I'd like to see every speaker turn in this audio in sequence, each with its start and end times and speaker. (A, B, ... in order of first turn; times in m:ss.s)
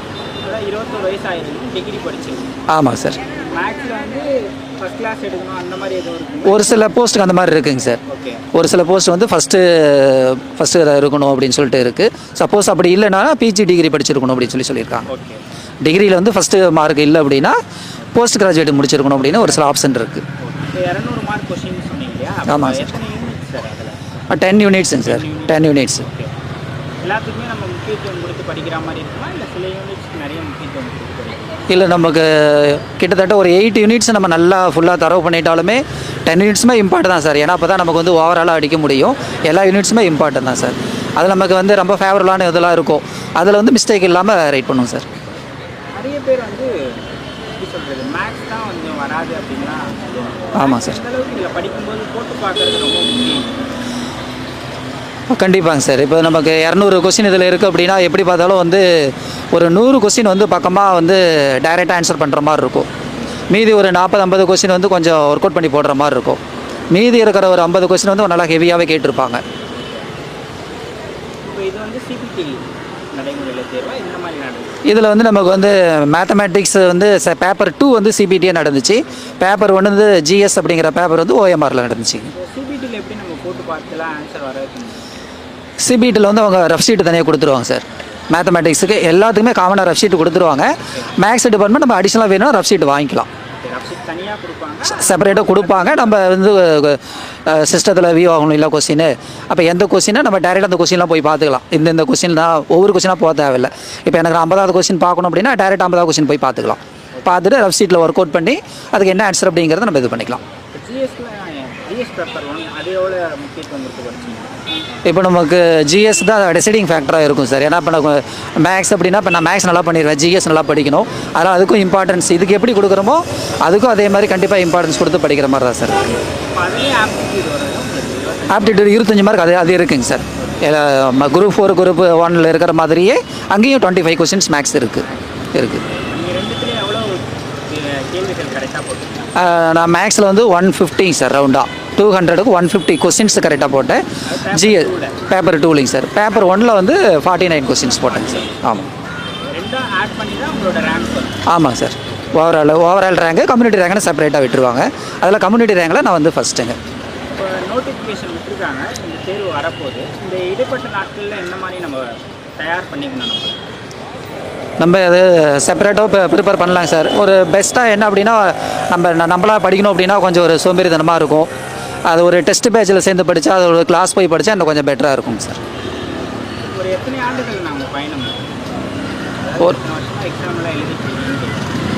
0:00.4-0:02.5 A
0:02.7-0:03.2 B
0:03.3-0:06.9 A
0:06.4-0:08.0 B
0:08.1-0:08.4 A
0:08.5-0:15.1 B
0:15.1-0:15.4 A
0:15.8-0:17.6 B
0:18.1-0:20.2 B
0:20.4-0:24.0 A
0:22.5-0:22.9 B
0:24.3-0:26.1 B
0:25.0-0:26.3 A
0:27.0-0:31.6 A
0:31.7-0:45.1 B
0:46.0-0:53.6 A
0:50.6-0:51.0 B
0:55.3-1:02.9 B
1:03.5-1:06.4 B
1:06.9-1:09.4 B
1:09.7-1:10.1 A
1:11.4-1:14.8 A
1:14.8-1:22.3 B
1:22.3-1:25.1 A
1:25.8-1:33.3 B
1:33.6-1:36.2 A
1:34.9-1:50.4 B
1:50.7-1:54.6 A
1:55.0-2:06.1 B
2:06.5-2:08.9 A
2:08.5-2:15.8 B
2:15.9-2:19.3 A
2:19.4-2:28.9 B
2:24.2-2:25.2 A
2:28.1-2:28.6 A
2:29.5-2:31.4 A
2:31.5-2:36.8 B
2:37.3-2:43.6 A
2:44.8-2:51.5 B
2:52.1-2:55.6 B
2:56.6-2:58.5 A
2:59.4-3:01.7 A